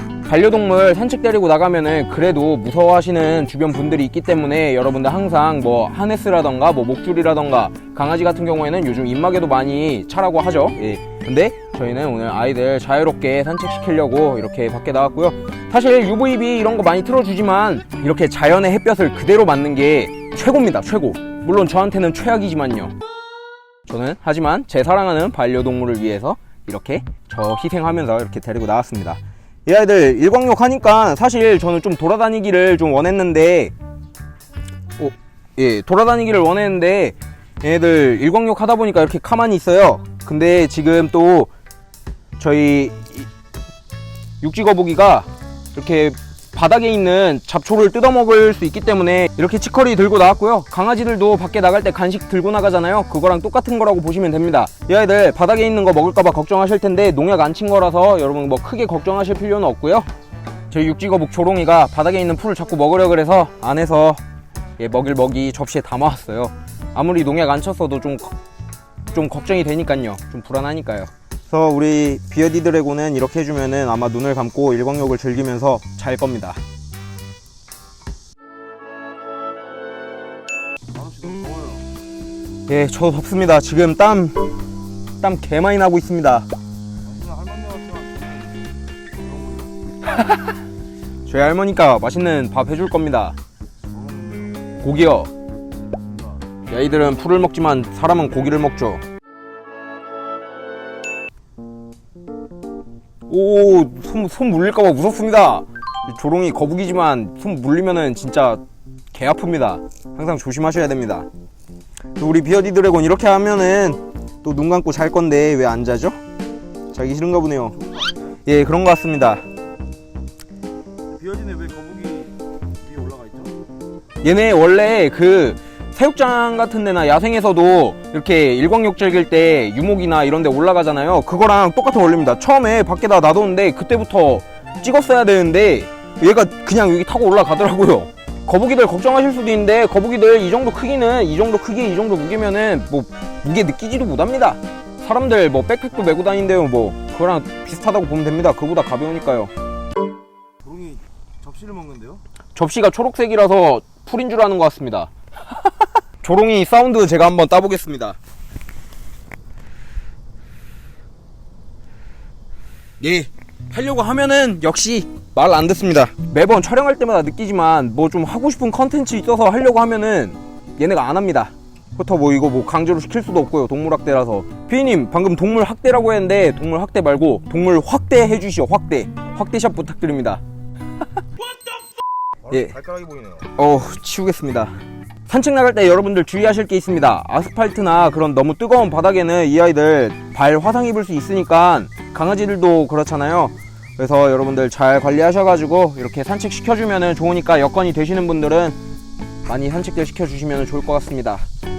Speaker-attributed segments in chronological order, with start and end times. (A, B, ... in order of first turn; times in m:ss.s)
0:00.2-0:22.9 A
0:23.8-0:33.7 A
0:35.0-0:41.5 A
0:42.4-0:43.3 A
0:44.4-1:00.1 A
1:00.7-1:04.2 A
1:04.8-1:08.4 A
1:09.1-1:16.6 A
1:20.9-1:21.9 B
1:22.7-1:24.5 A
1:25.2-1:26.5 A
1:27.1-1:28.6 B
1:29.2-1:29.8 B
1:31.2-1:33.4 A
1:33.9-1:34.7 B
1:34.8-1:35.3 A
1:36.7-1:39.0 A
1:43.3-1:48.6 A
1:49.1-1:51.3 A
1:52.2-1:56.2 A
1:56.9-1:57.8 A
1:58.4-1:59.4 A
2:01.1-2:03.6 B
2:04.2-2:29.5 A
2:30.6-2:32.2 B
2:32.6-2:35.1 A
2:36.2-2:38.2 A
2:43.0-3:00.4 A
3:02.4-3:03.5 B
3:03.5-3:04.8 A
3:05.3-3:18.8 A
3:19.4-3:21.4 A